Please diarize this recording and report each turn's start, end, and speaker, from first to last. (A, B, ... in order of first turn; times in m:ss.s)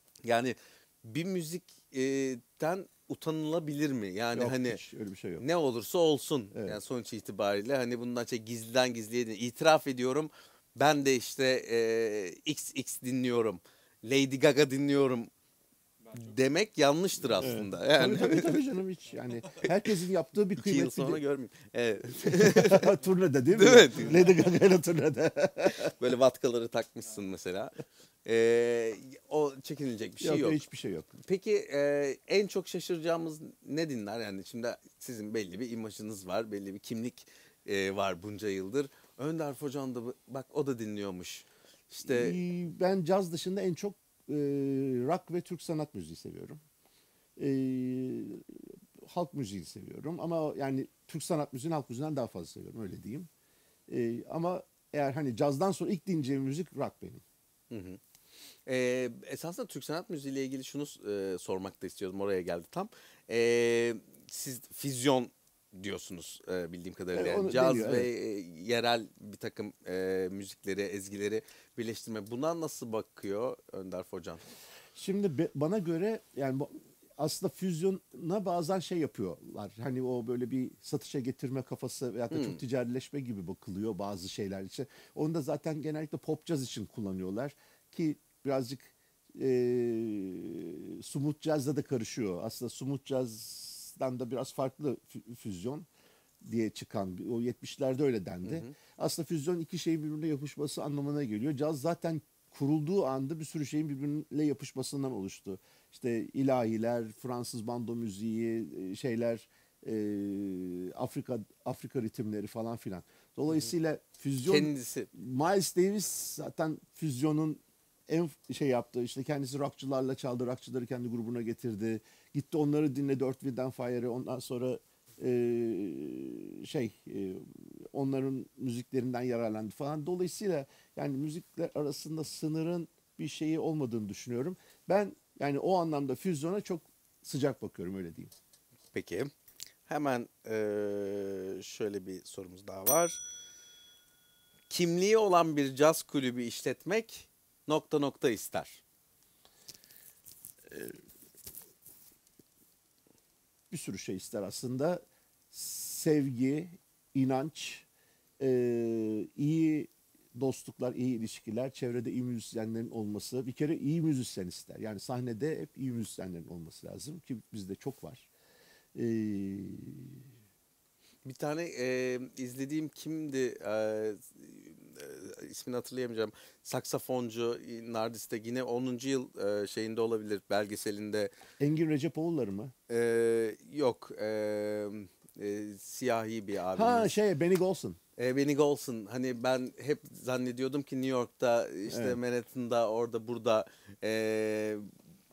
0:00.2-0:04.8 A
0:04.3-0:05.4 B
0:05.4-0:15.3 A
0:06.5-0:06.8 B
0:16.1-0:18.6 A
0:17.4-0:21.2 B
0:20.6-0:22.9 A
0:22.2-0:25.9 B
0:23.5-0:24.3 A
0:25.8-0:27.7 A
0:28.2-0:30.6 A
0:30.2-0:31.2 B
0:31.2-0:42.4 A
0:42.0-0:46.6 B
0:47.4-0:53.3 B
0:53.9-0:57.2 B
0:57.7-0:58.0 A
0:58.6-1:14.4 A
1:07.1-1:08.1 B
1:14.9-1:35.9 B
1:22.3-1:22.6 A
1:36.4-2:18.3 B
1:38.4-1:38.7 A
1:54.4-1:55.1 A
2:18.9-2:19.3 A
2:19.9-2:23.2 A
2:24.7-2:28.8 A
2:33.7-2:37.8 B
2:38.4-2:48.3 B
2:48.9-2:50.2 B
2:51.2-3:01.3 A
3:01.6-3:02.7 B
3:02.9-3:07.2 A
3:06.7-3:08.0 B
3:08.2-3:14.9 A
3:11.9-3:12.2 B